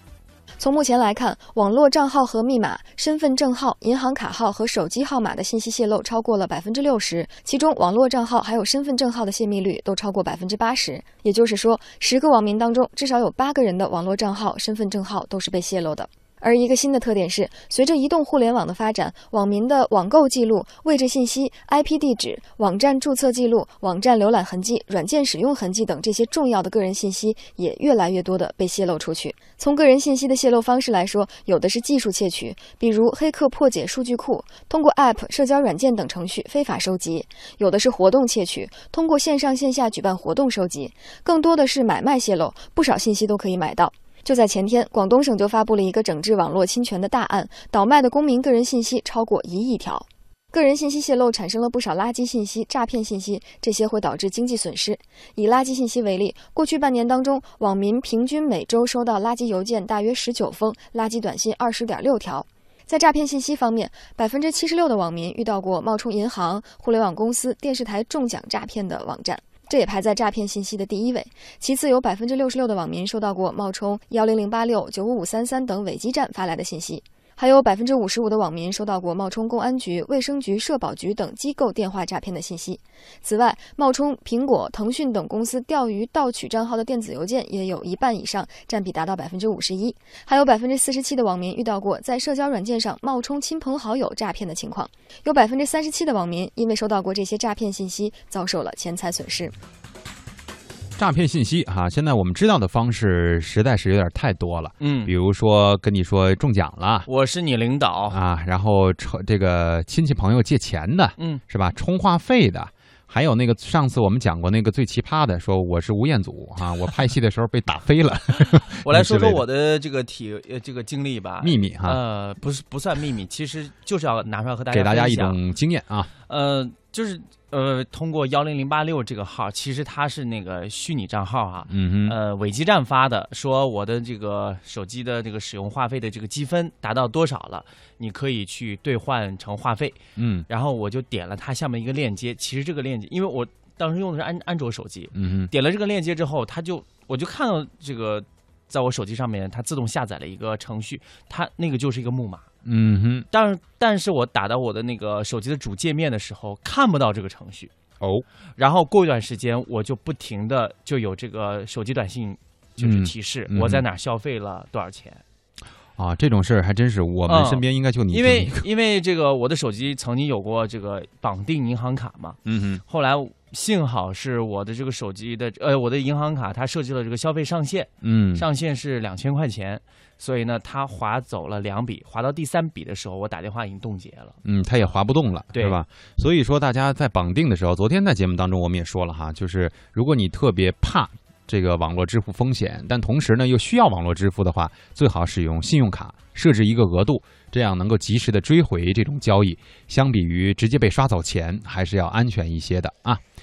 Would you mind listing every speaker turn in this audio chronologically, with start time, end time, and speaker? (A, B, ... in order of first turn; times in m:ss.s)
0:00.6-1:39.5 A
1:41.0-1:47.1 B
1:44.8-1:45.1 C
1:47.1-1:48.2 C
1:48.1-1:59.4 B
1:58.4-2:05.4 C
2:01.4-2:02.0 B
2:04.7-2:06.1 B
2:06.3-2:32.5 C
2:11.7-2:12.2 B
2:20.2-2:20.4 B
2:25.1-2:25.5 B
2:32.6-2:33.2 B
2:33.3-2:37.7 C
2:38.6-2:45.2 C
2:42.8-2:43.8 B
2:46.0-2:48.6 B
2:47.3-3:04.4 C
2:52.4-2:52.8 B
2:58.0-2:58.4 B
3:04.4-3:23.2 B
3:05.5-3:05.8 C